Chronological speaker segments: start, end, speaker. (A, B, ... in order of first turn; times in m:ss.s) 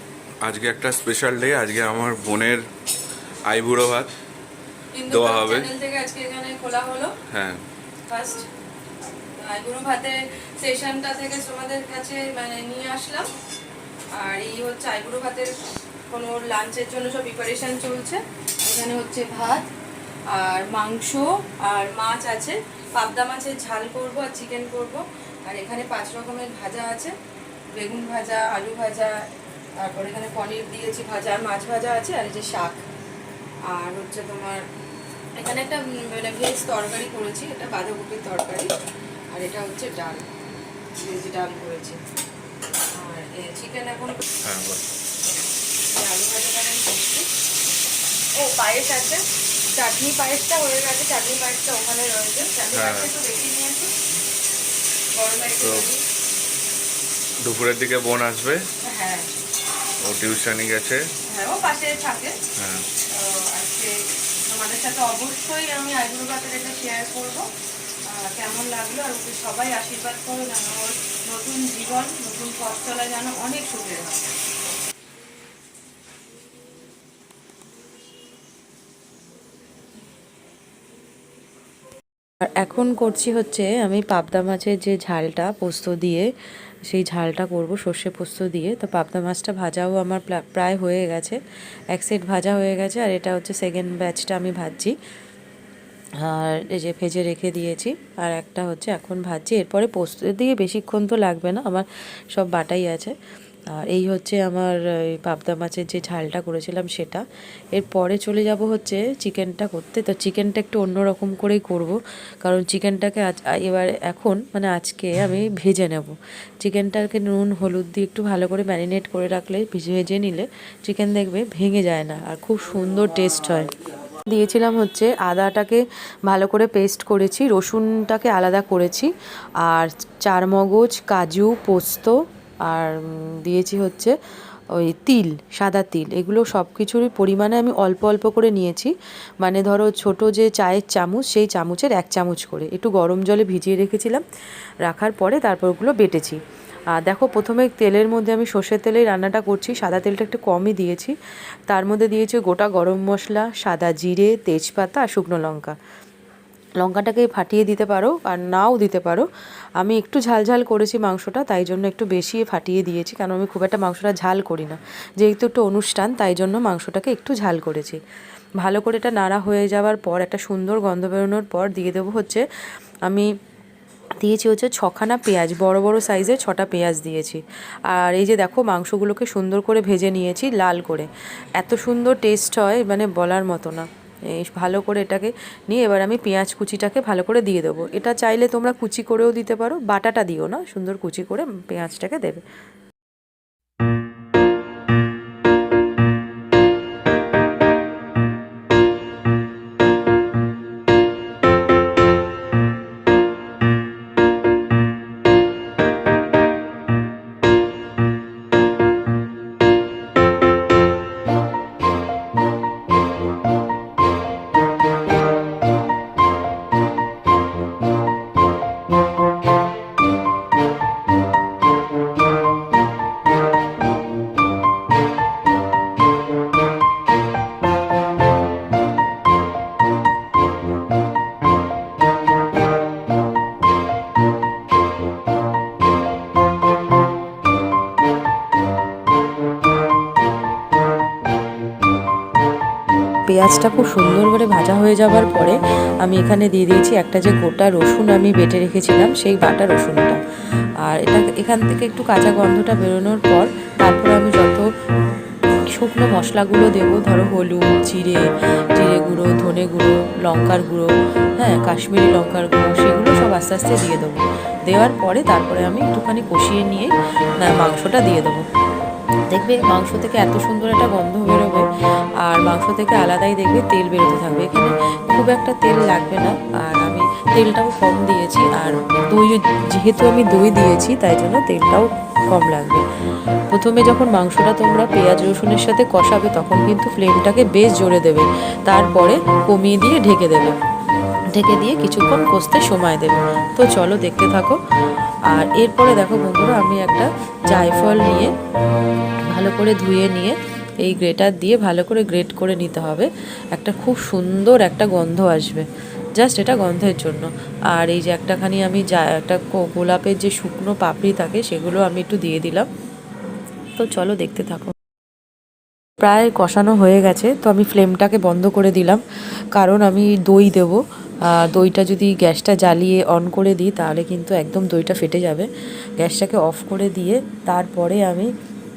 0:00.4-0:02.6 A
0:03.5-0:04.1 A
0:05.0-0:07.1 B
0:05.1-0:05.7 A
0:05.2-0:06.8 C
0:07.3-0:07.6 A
0:08.1-0:08.4 B
0:08.1-0:08.4 C
0:09.4-0:13.3 B
0:09.5-0:10.1 C
0:10.7-0:13.1 C
0:14.2-0:15.5 B
0:16.1-0:19.7 B
0:16.1-0:17.3 C
0:20.3-0:27.1 B
0:27.8-0:29.3 B
0:29.8-0:32.8 B
0:33.7-0:34.6 B
0:35.4-0:36.3 C
0:35.4-0:38.7 B
0:37.1-0:38.3 C
0:39.3-0:40.2 B
0:41.0-0:42.0 B
0:43.0-0:44.2 B
0:44.4-0:44.8 A
0:45.9-0:47.2 B
0:48.4-0:49.2 B
0:49.8-0:53.9 B
0:51.5-0:53.7 C
0:52.7-0:53.1 A
0:55.2-0:55.9 C
0:55.6-0:55.9 A
0:57.4-0:58.6 A
0:58.9-0:59.2 B
1:00.0-1:01.0 A
1:01.3-1:02.4 C
1:02.6-1:02.9 A
1:03.2-1:03.9 B
1:04.5-1:07.4 B
1:04.5-1:07.4 C
1:08.1-1:14.3 B
1:08.5-1:10.7 C
1:12.6-1:14.0 C
1:22.6-1:26.3 C
1:26.9-1:31.4 C
1:31.9-1:34.9 C
1:36.2-1:43.1 C
1:43.8-1:47.2 C
1:47.7-2:03.7 C
2:04.3-2:14.1 C
2:14.7-2:24.2 C
2:24.8-2:26.4 C
2:26.9-2:31.2 C
2:31.7-2:35.8 C
2:36.8-2:39.3 C
2:39.8-2:48.0 C
2:48.6-2:52.4 C
2:54.2-3:12.4 C
4:03.3-4:10.2 C
4:10.8-4:14.7 C
4:15.7-4:28.4 C
4:29.3-4:31.7 C
4:32.2-4:42.8 C
4:43.5-4:50.6 C
4:51.4-4:54.6 C
4:55.3-4:58.3 C
4:59.3-5:05.7 C
5:06.2-5:12.7 C
5:13.8-5:14.7 C
5:16.0-5:19.0 C
5:19.6-5:28.3 C